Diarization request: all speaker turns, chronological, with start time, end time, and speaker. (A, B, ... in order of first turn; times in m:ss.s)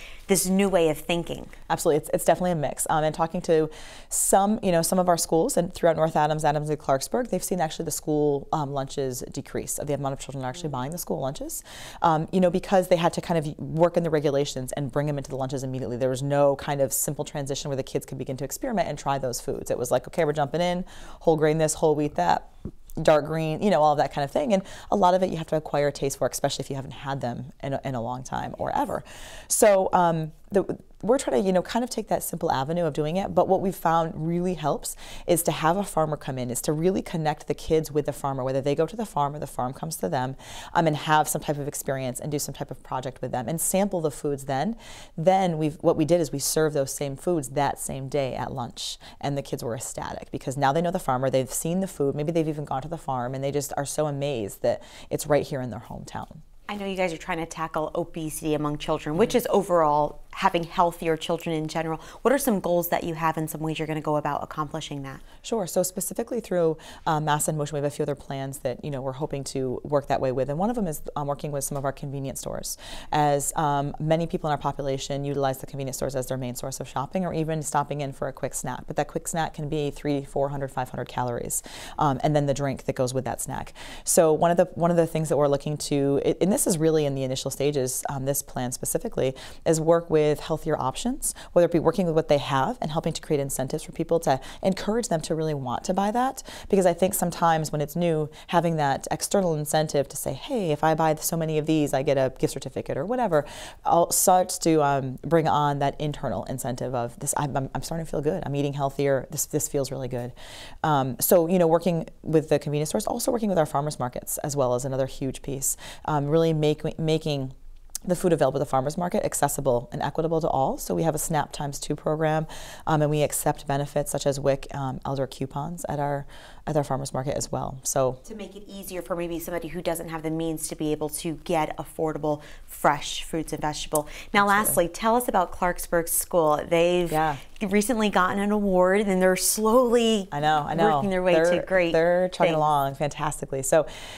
0:00.3-0:01.5 A
0:01.7-0:56.4 B
0:56.7-1:05.2 A
1:05.4-1:57.5 B
1:58.0-2:08.2 B
2:08.2-2:22.6 A
2:14.4-2:14.8 B
2:17.1-2:17.4 B
2:20.3-2:23.9 B